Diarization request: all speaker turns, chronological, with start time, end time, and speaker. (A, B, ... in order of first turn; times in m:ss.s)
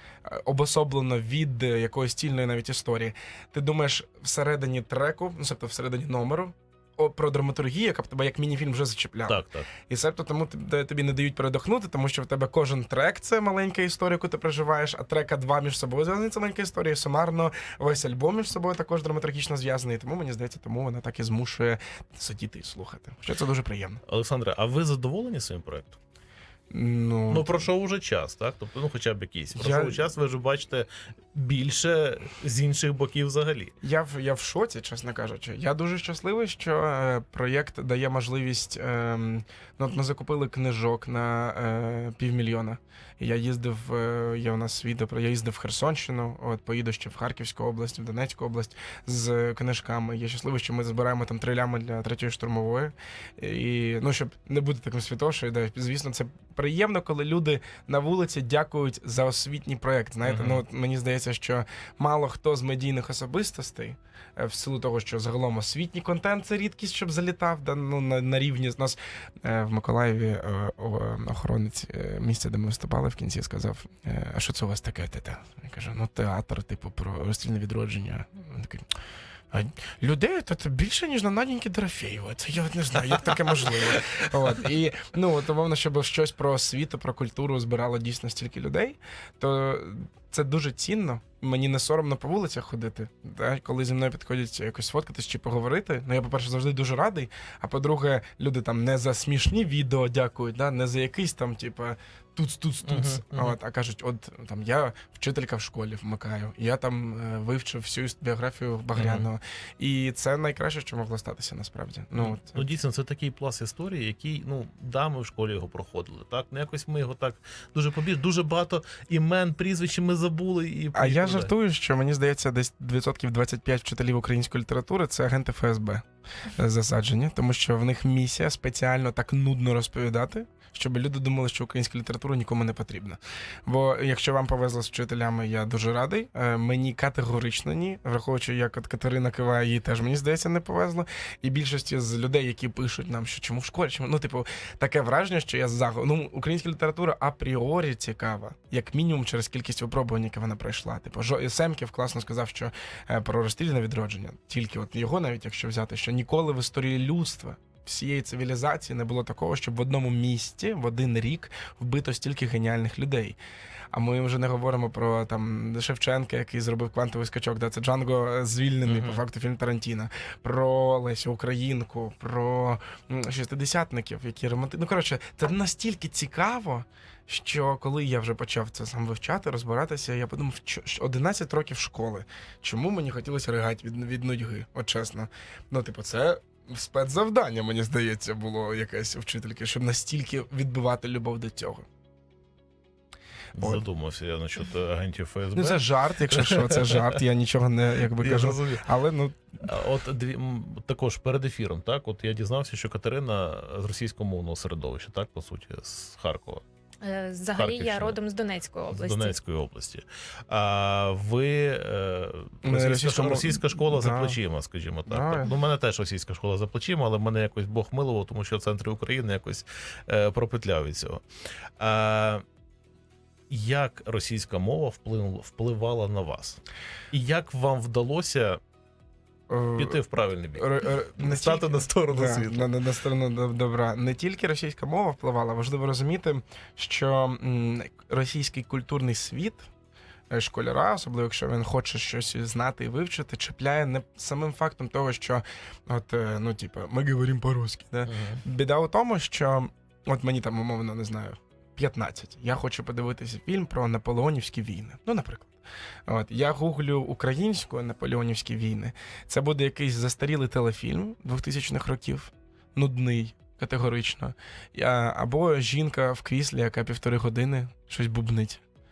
0:00.2-0:24.0 A
0:09.3-0:09.7 B
0:24.1-0:26.0 B
0:26.7-0:27.7 A
0:27.3-0:33.7 B
0:29.5-0:30.1 A
0:33.8-1:18.9 A
1:00.2-1:00.6 B
1:19.5-1:52.7 A
1:42.8-1:43.6 B
1:49.0-1:49.3 B
1:52.2-2:01.5 B
2:00.9-2:43.4 A
2:43.9-3:11.9 A
2:48.9-2:49.2 B
3:13.6-3:17.2 B
3:13.6-3:13.8 A
3:15.5-3:19.6 A
3:18.2-3:18.9 B
3:19.6-3:26.6 B
3:27.0-3:29.4 C
3:27.6-3:28.2 B
3:28.9-3:41.2 B
3:32.6-3:34.4 A
3:35.1-3:35.5 A
3:41.8-3:42.4 B
3:43.5-3:48.6 B
3:49.5-3:50.0 A
3:49.8-3:52.7 B
3:50.6-3:59.7 A
4:00.3-4:15.6 A
4:08.1-4:08.4 B
4:16.1-4:28.6 A